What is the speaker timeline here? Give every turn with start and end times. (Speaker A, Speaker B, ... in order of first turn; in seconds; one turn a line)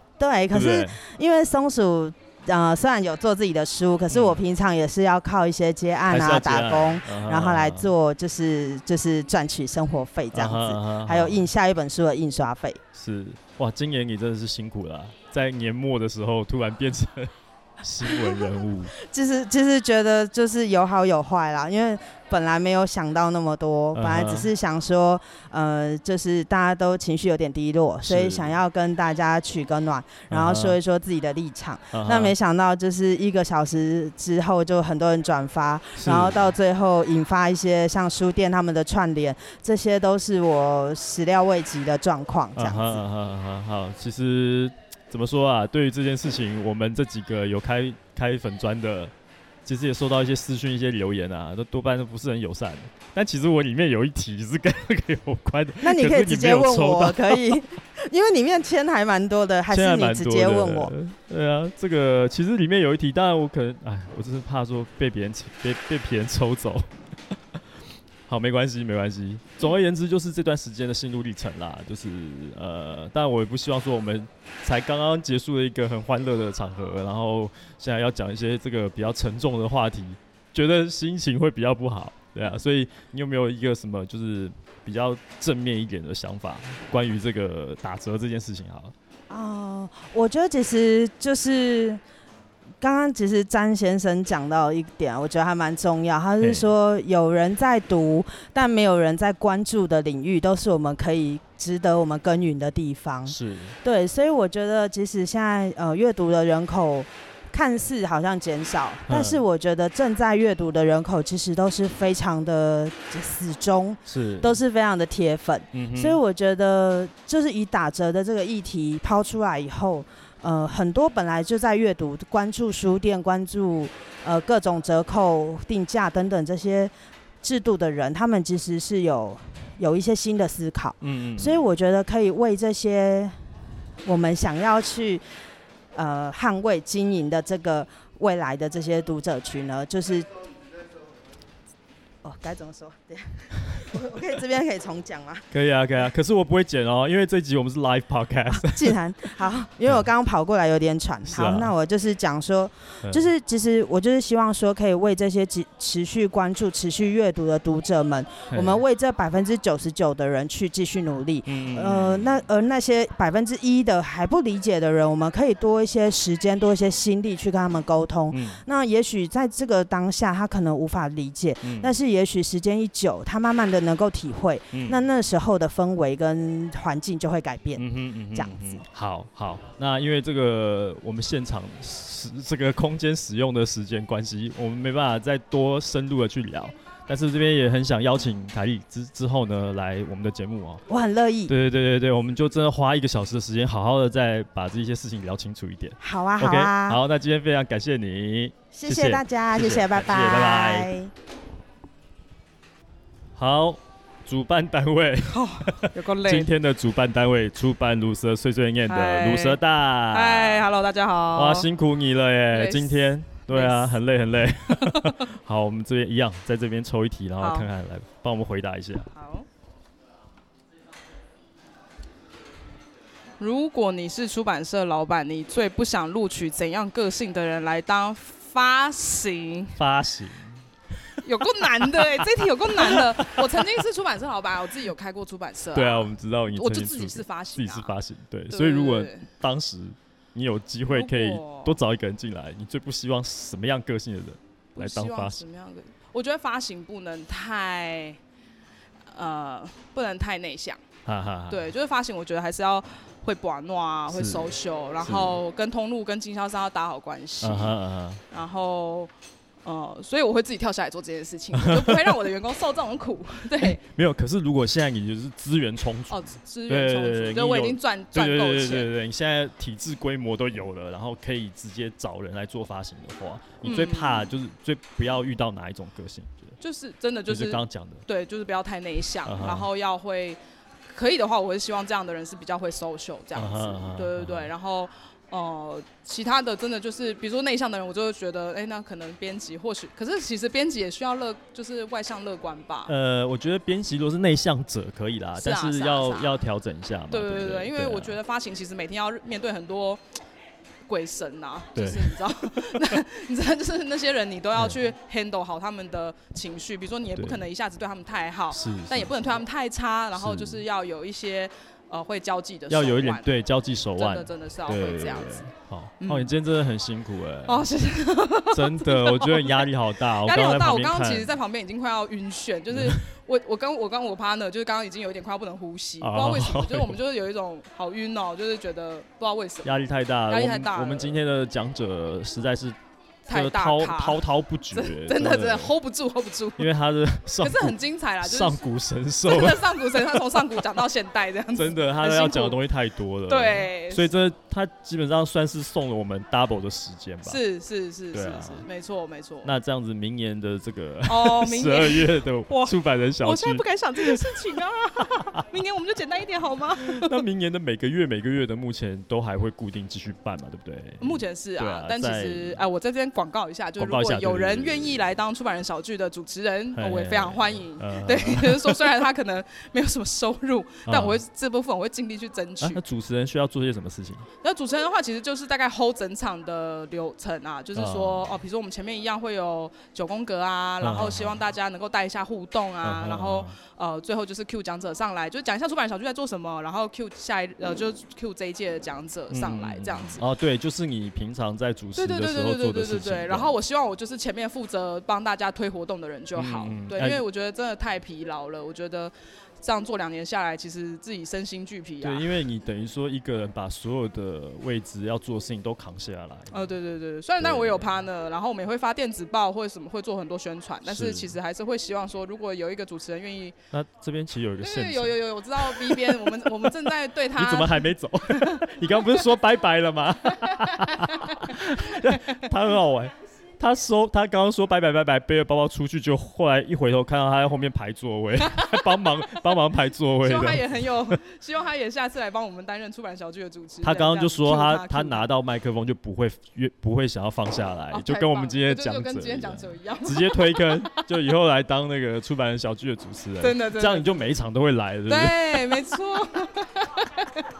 Speaker A: 0.2-12.8
Speaker B: 0.5-1.0
Speaker B: 4.1-4.4
Speaker B: 6.1-7.9
Speaker B: 10.3-11.5
Speaker B: 12.9-18.9
Speaker A: 18.0-43.0
Speaker B: 23.9-24.5
Speaker B: 28.0-28.6
Speaker B: 30.3-30.8
Speaker B: 31.9-32.3
Speaker B: 36.0-36.5
Speaker B: 42.5-49.1
Speaker B: 49.6-57.5
Speaker A: 55.8-60.9
Speaker B: 59.7-66.9
Speaker B: 68.3-88.9
Speaker A: 89.3-92.0
Speaker A: 92.8-133.3
Speaker B: 96.4-96.7
Speaker B: 103.3-103.8
Speaker B: 109.1-109.4
Speaker B: 114.0-114.6
Speaker B: 115.7-116.2
Speaker B: 131.0-131.6
Speaker A: 134.0-135.2
Speaker A: 135.9-140.3
Speaker A: 142.2-145.4
Speaker B: 145.5-148.9
Speaker A: 148.6-178.8
Speaker B: 151.2-151.7
Speaker B: 158.5-158.8
Speaker B: 161.4-162.4
Speaker B: 168.3-168.6
Speaker B: 171.6-171.9
Speaker B: 174.7-175.0
Speaker B: 177.8-190.8
Speaker A: 190.9-191.5
Speaker B: 191.5-200.9
Speaker A: 196.0-197.0
Speaker A: 198.7-201.1
Speaker B: 203.3-210.7
Speaker C: 205.3-206.5
Speaker C: 208.9-211.7
Speaker B: 211.3-219.1
Speaker C: 212.5-213.9
Speaker C: 214.8-215.2
Speaker C: 217.4-217.7
Speaker C: 219.1-219.4
Speaker C: 223.4-229.8
Speaker B: 229.8-233.8
Speaker C: 231.2-237.9
Speaker B: 235.7-245.4
Speaker C: 238.5-239.3
Speaker C: 240.9-241.8
Speaker C: 244.7-248.2
Speaker C: 249.1-250.8
Speaker B: 251.1-251.7
Speaker C: 251.5-257.7
Speaker B: 254.1-255.4
Speaker B: 257.4-258.2
Speaker C: 258.3-259.1
Speaker C: 259.6-263.8
Speaker B: 261.5-262.2
Speaker B: 263.6-276.6
Speaker C: 266.1-268.9
Speaker C: 273.6-274.3
Speaker C: 276.6-292.9
Speaker B: 277.3-278.0
Speaker B: 279.2-279.7
Speaker B: 283.3-284.5
Speaker B: 292.9-298.2
Speaker C: 295.4-296.4
Speaker C: 297.1-300.0
Speaker C: 300.9-313.3
Speaker B: 301.8-303.0
Speaker B: 304.5-304.8
Speaker B: 307.1-307.4
Speaker B: 308.5-309.3
Speaker B: 310.1-310.6
Speaker B: 312.7-317.7
Speaker C: 313.9-315.4
Speaker C: 316.0-316.3
Speaker C: 317.4-331.2
Speaker B: 318.5-321.3
Speaker B: 322.7-323.0
Speaker B: 326.0-327.0
Speaker B: 329.6-332.8
Speaker C: 333.2-336.7
Speaker B: 333.3-335.8
Speaker B: 336.6-340.4
Speaker C: 337.4-338.7
Speaker C: 339.2-342.6
Speaker B: 341.5-347.4
Speaker C: 343.3-344.1
Speaker C: 347.2-349.5
Speaker B: 348.1-348.6
Speaker B: 349.4-354.5
Speaker C: 351.1-357.2
Speaker B: 356.8-362.6
Speaker C: 361.0-372.8
Speaker B: 363.8-365.0
Speaker B: 366.7-368.8
Speaker B: 370.9-371.2
Speaker B: 372.6-374.2
Speaker C: 374.4-390.2
Speaker B: 377.7-378.4
Speaker B: 380.8-381.4
Speaker B: 382.8-383.5
Speaker B: 389.3-393.5
Speaker C: 391.9-402.3
Speaker B: 396.3-397.2
Speaker B: 402.0-406.6
Speaker C: 406.5-413.6
Speaker B: 407.4-408.0
Speaker B: 410.9-411.3
Speaker B: 413.7-416.4
Speaker C: 414.6-418.6
Speaker B: 417.3-431.2
Speaker C: 420.4-421.8
Speaker C: 428.5-428.9
Speaker C: 430.2-435.3
Speaker B: 433.8-445.7
Speaker C: 437.9-441.0
Speaker C: 443.4-444.2
Speaker C: 445.1-447.4